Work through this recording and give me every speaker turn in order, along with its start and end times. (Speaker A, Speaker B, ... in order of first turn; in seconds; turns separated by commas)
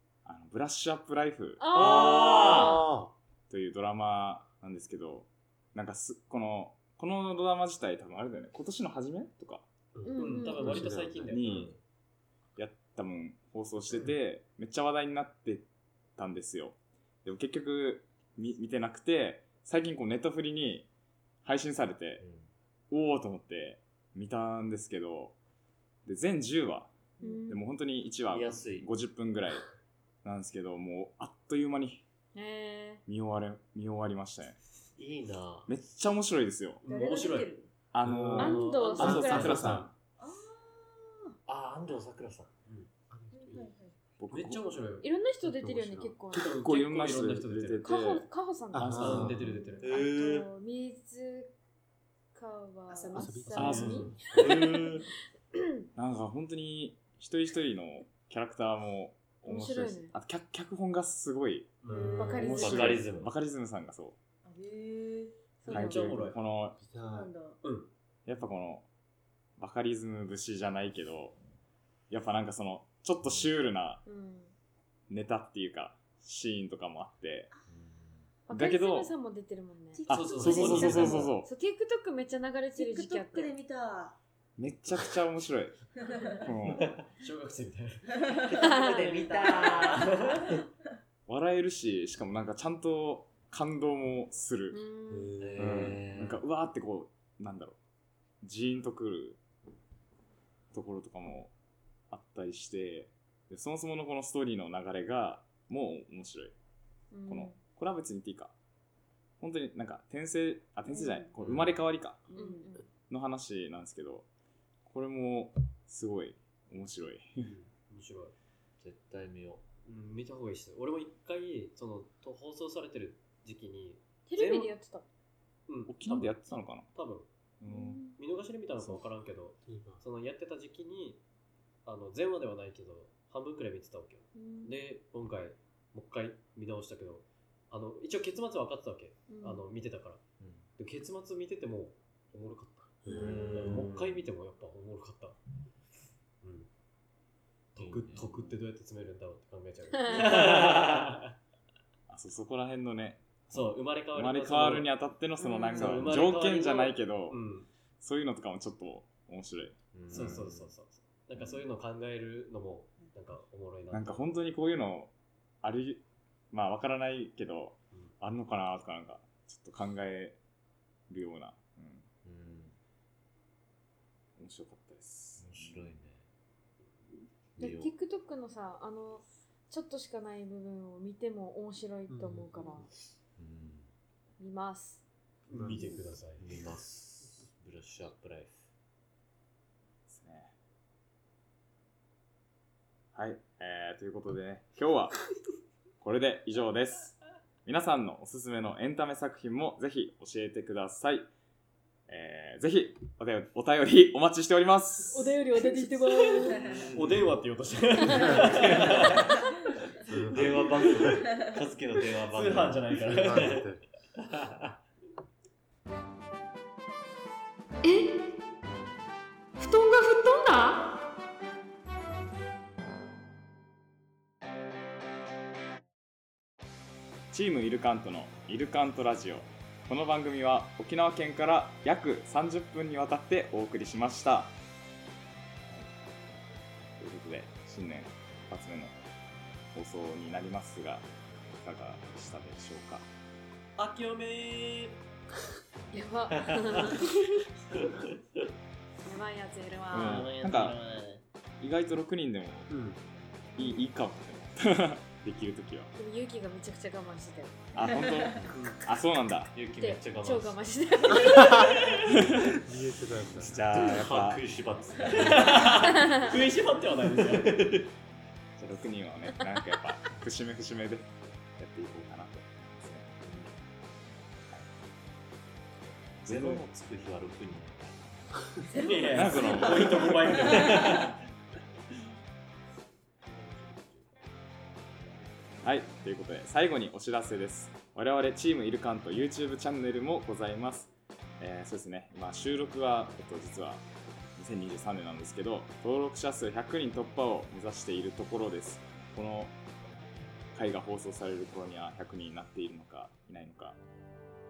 Speaker A: 0.2-1.7, Speaker B: 1.6-2.8, Speaker C: 1.7-2.9, Speaker D: 2.0-3.1, Speaker A: 3.5-9.6, Speaker D: 9.9-11.4, Speaker B: 10.0-10.9, Speaker E: 10.2-11.7, Speaker A: 11.3-11.7, Speaker C: 11.4-11.8, Speaker A: 12.6-20.9, Speaker A: 21.4-22.2, Speaker C: 22.2-22.5, Speaker A: 22.9-25.4, Speaker A: 26.1-26.9, Speaker B: 27.2-27.6, Speaker A: 27.5-29.6, Speaker C: 28.3-28.9, Speaker A: 30.2-32.0, Speaker B: 32.3-33.0, Speaker A: 33.0-34.6, Speaker C: 35.0-35.8, Speaker A: 35.7-36.8, Speaker E: 36.8-39.6, Speaker F: 36.8-37.7, Speaker A: 37.9-39.9, Speaker D: 38.0-39.9, Speaker B: 38.4-39.7, Speaker F: 40.2-41.4, Speaker C: 41.5-42.5, Speaker D: 43.1-43.7, Speaker F: 43.3-44.0, Speaker A: 44.2-44.6, Speaker E: 44.3-45.1, Speaker B: 45.0-46.5, Speaker D: 45.4-46.2, Speaker E: 46.3-47.9, Speaker A: 46.3-49.1, Speaker B: 47.8-51.5, Speaker D: 48.7-49.5, Speaker E: 48.8-49.8, Speaker C: 49.8-50.5, Speaker B: 52.3-54.9, Speaker F: 52.9-53.5, Speaker D: 53.1-54.7, Speaker E: 53.5-54.1, Speaker A: 53.5-55.0, Speaker C: 54.2-55.0, Speaker B: 55.5-55.9, Speaker A: 55.9-61.8, Speaker B: 59.4-60.1, Speaker E: 61.8-62.5, Speaker F: 61.9-62.8, Speaker D: 61.9-62.2, Speaker B: 62.1-63.0, Speaker A: 62.3-64.2, Speaker C: 62.5-63.3, Speaker F: 64.4-65.5, Speaker B: 65.6-66.2, Speaker E: 65.7-66.4, Speaker A: 65.7-66.8, Speaker D: 66.8-67.3, Speaker F: 67.0-67.6, Speaker E: 67.6-67.9, Speaker A: 68.2-68.8, Speaker A: 69.6-71.4, Speaker A: 72.1-74.0, Speaker B: 74.0-74.5, Speaker A: 75.1-77.5, Speaker C: 77.7-78.3, Speaker B: 78.5-83.5, Speaker A: 78.5-79.1, Speaker F: 79.9-81.3, Speaker A: 80.1-81.5, Speaker E: 80.1-81.3, Speaker F: 82.7-84.2, Speaker A: 84.6-85.8, Speaker F: 86.0-86.5, Speaker A: 86.4-87.0, Speaker E: 87.1-88.1, Speaker F: 88.2-90.6, Speaker C: 88.5-90.5, Speaker B: 88.6-89.0, Speaker E: 89.2-90.5, Speaker A: 91.3-94.8, Speaker B: 94.7-95.4, Speaker D: 95.1-96.0, Speaker C: 95.4-96.4, Speaker A: 95.6-97.8, Speaker A: 98.4-99.4, Speaker A: 100.7-101.5, Speaker A: 102.1-106.5, Speaker B: 107.1-107.6, Speaker A: 107.3-108.5, Speaker A: 109.4-112.2, Speaker F: 110.9-111.3, Speaker C: 111.4-111.8, Speaker F: 112.3-112.8, Speaker B: 112.3-112.8, Speaker A: 113.1-114.2, Speaker A: 114.8-117.5, Speaker E: 117.4-118.3, Speaker C: 118.8-119.6, Speaker E: 119.8-124.7, Speaker B: 124.3-125.0, Speaker E: 125.7-127.3, Speaker A: 125.9-126.9, Speaker A: 127.6-128.1, Speaker B: 127.7-128.1, Speaker E: 128.1-131.2, Speaker D: 129.6-130.0, Speaker E: 131.8-140.2, Speaker B: 134.3-134.7, Speaker B: 139.3-139.6, Speaker C: 140.4-140.7, Speaker E: 140.8-145.4, Speaker D: 143.0-143.6, Speaker C: 143.1-144.2, Speaker B: 143.1-143.4, Speaker E: 146.4-146.7, Speaker E: 147.7-151.3, Speaker C: 147.8-148.6, Speaker B: 149.9-150.3, Speaker C: 150.3-151.0, Speaker A: 152.1-157.4, Speaker E: 153.5-155.0, Speaker B: 155.4-155.9, Speaker E: 155.7-157.7, Speaker A: 157.9-160.2, Speaker C: 159.9-160.7, Speaker E: 160.1-164.3, Speaker A: 163.9-170.4, Speaker A: 171.1-172.0, Speaker C: 172.2-172.8, Speaker A: 174.4-175.9, Speaker C: 175.4-176.2, Speaker C: 177.6-177.9, Speaker B: 177.6-182.9, Speaker D: 182.1-182.8, Speaker C: 183.3-183.9, Speaker B: 184.4-185.0, Speaker E: 185.5-186.5, Speaker D: 185.5-186.1, Speaker C: 186.4-188.7, Speaker A: 190.1-190.5, Speaker A: 193.1-195.2, Speaker A: 196.0-201.3, Speaker A: 202.1-205.4, Speaker B: 205.1-206.6, Speaker E: 206.1-209.3, Speaker F: 206.6-206.9, Speaker B: 208.0-208.5, Speaker D: 208.1-208.7, Speaker C: 208.3-209.3, Speaker D: 210.1-211.2, Speaker C: 210.2-213.7, Speaker F: 211.1-211.5, Speaker E: 212.2-213.7, Speaker D: 213.1-213.8, Speaker C: 214.2-214.8, Speaker B: 217.8-218.2, Speaker B: 219.6-220.9, Speaker A: 227.3-234.5, Speaker A: 237.0-238.9, Speaker A: 239.7-241.1, Speaker A: 241.6-243.1, Speaker E: 243.8-245.0, Speaker B: 245.9-247.4, Speaker C: 246.4-247.0, Speaker C: 247.7-248.4, Speaker B: 249.0-250.3, Speaker A: 249.9-250.9, Speaker C: 250.0-251.0, Speaker A: 251.6-252.7, Speaker D: 252.7-253.0, Speaker A: 253.6-255.9, Speaker B: 253.6-253.8, Speaker B: 255.9-257.7, Speaker A: 257.7-259.5, Speaker F: 257.8-258.4, Speaker C: 259.5-260.6, Speaker B: 259.8-261.9, Speaker A: 262.1-262.6, Speaker D: 262.4-263.6, Speaker A: 263.4-264.4, Speaker C: 263.7-266.4, Speaker E: 265.1-267.8, Speaker B: 265.8-266.2, Speaker C: 267.0-267.9, Speaker A: 268.6-273.2, Speaker C: 276.2-278.5, Speaker A: 276.2-276.6, Speaker E: 278.7-281.2, Speaker A: 279.1-280.4, Speaker C: 280.3-281.2, Speaker E: 283.2-284.2, Speaker A: 285.6-293.8, Speaker A: 294.4-299.6, Speaker A: 300.5-303.8